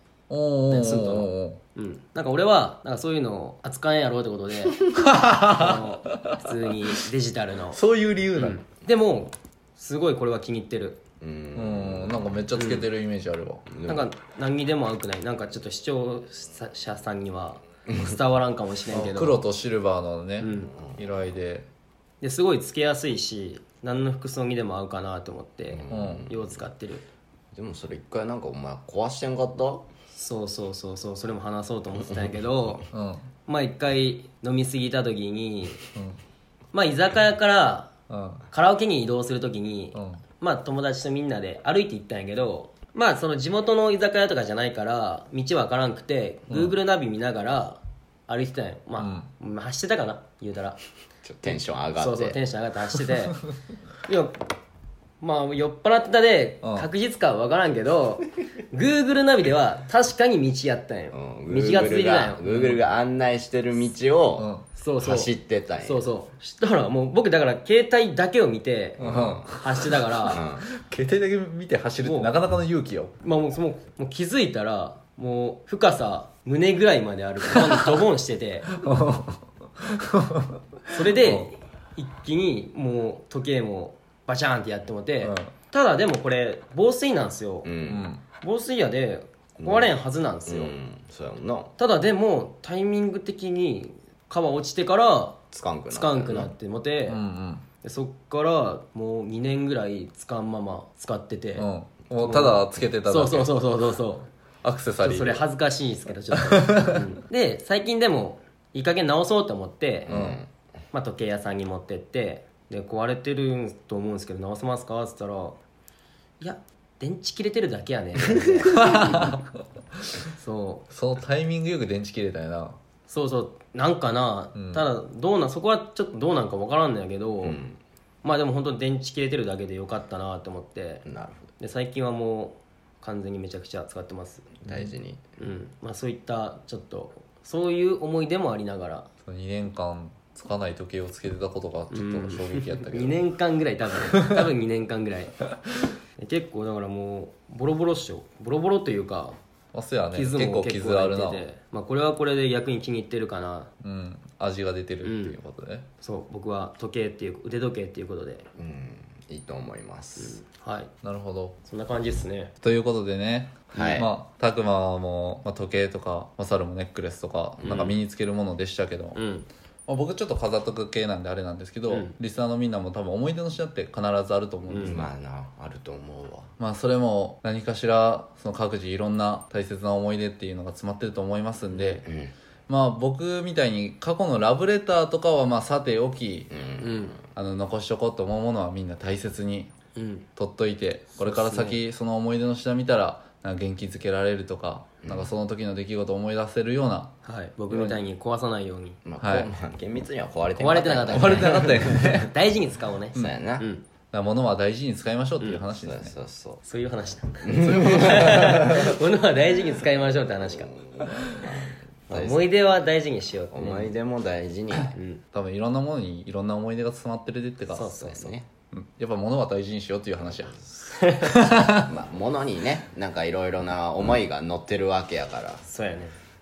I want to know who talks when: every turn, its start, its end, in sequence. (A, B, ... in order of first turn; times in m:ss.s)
0:00.3-0:01.6 A
0:00.7-0:04.8 B
0:04.9-0:06.4 A
0:05.4-0:07.8 B
0:07.7-0:08.6 A
0:08.3-0:11.0 B
0:11.2-0:12.5 C
0:11.5-0:13.7 A
0:12.5-0:12.9 B
0:13.7-0:14.1 C
0:13.9-0:19.4 B
0:17.9-0:18.2 C
0:18.9-0:21.7 A
0:20.4-0:20.7 B
0:20.7-0:21.0 C
0:22.2-0:27.1 B
0:25.7-0:26.6 C
0:25.9-0:26.3 A
0:27.6-0:29.9 C
0:30.1-0:32.9 B
0:32.9-0:33.3 A
0:33.5-0:35.8 B
0:36.7-0:37.9 B
0:38.1-0:38.4 A
0:38.5-0:50.8 B
0:39.9-0:40.2 A
0:46.5-0:46.8 A
0:49.0-0:49.3 A
0:51.2-0:52.4 C
0:51.4-0:53.4 B
0:54.0-0:54.4 B
0:55.2-1:02.4 B
0:56.6-0:56.9 A
1:01.1-1:04.5 C
1:02.5-1:02.8 A
1:04.4-1:04.7 A
1:04.8-1:10.4 B
1:05.0-1:06.0 C
1:09.0-1:13.2 A
1:09.0-1:09.5 C
1:10.2-1:10.7 C
1:12.0-1:12.3 B
1:13.2-1:18.7 B
1:17.5-1:17.9 A
1:18.7-1:21.5 A
1:20.9-1:27.7 B
1:25.2-1:25.5 A
1:27.6-1:28.1 C
1:27.9-1:28.2 A
1:28.4-1:30.7 B
1:29.6-1:31.7 C
1:31.8-1:37.2 B
1:35.5-1:36.5 C
1:37.1-1:37.6 A
1:37.8-1:41.7 B
1:41.6-1:43.6 A
1:42.2-1:44.3 B
1:44.6-1:45.4 A
1:45.0-1:50.1 B
1:46.3-1:47.1 A
1:50.0-1:50.5 C
1:50.1-1:50.4 A
1:50.9-1:55.6 B
1:56.4-1:59.3 B
1:58.6-1:59.4 A
2:00.2-2:00.9 B
2:00.9-2:02.8 A
2:03.1-2:07.6 B
2:04.6-2:04.9 A
2:07.4-2:07.8 C
2:08.2-2:11.0 B
2:11.1-2:11.5 C
2:11.6-2:14.5 B
2:14.6-2:15.2 C
2:14.7-2:14.9 A
2:15.4-2:19.1 B
2:19.2-2:23.2 A
2:21.9-2:25.4 B
2:26.2-2:29.4 B
2:29.7-2:31.4 A
2:30.1-2:33.7 B
2:33.8-2:35.9 A
2:35.0-2:35.4 B
2:36.0-2:38.5 B
2:38.6-2:40.4 C
2:40.2-2:40.9 B
2:41.0-2:41.6 A
2:41.6-2:42.5 B
2:42.6-2:49.2 A
2:43.8-2:44.1 C
2:47.6-2:48.0 C
2:49.2-2:49.5 B
2:49.9-2:55.0 A
2:51.9-2:52.2 B
2:54.7-2:55.1 B
2:54.8-2:56.5 C
2:56.6-3:02.0 A
3:01.7-3:02.3 C
3:02.7-3:06.5 A
3:06.5-3:07.2 C
3:06.8-3:07.2 B
3:07.4-3:09.7 A
3:10.0-3:10.3 B
3:10.4-3:17.1 A
3:11.2-3:11.8 B
3:15.0-3:15.3 C
3:17.2-3:19.0 B
3:17.7-3:18.0 A
3:19.0-3:22.1 C
3:19.2-3:19.5 A
3:20.6-3:23.8 B
3:21.1-3:22.3 A
3:23.2-3:23.7 C
3:24.1-3:26.2 A
3:25.7-3:26.6 C
3:26.6-3:30.7 B
3:27.4-3:28.7 C
3:30.3-3:32.5 C
3:32.1-3:33.9 B
3:33.5-3:34.9 C
3:34.9-3:35.2 B
3:35.3-3:38.0 A
3:37.7-3:38.4 B
3:37.8-3:38.5 C
3:38.7-3:40.6 A
3:40.2-3:41.0 C
3:40.9-3:41.5 B
3:41.3-3:41.9 A
3:41.8-3:45.7 C
3:45.6-3:46.2 B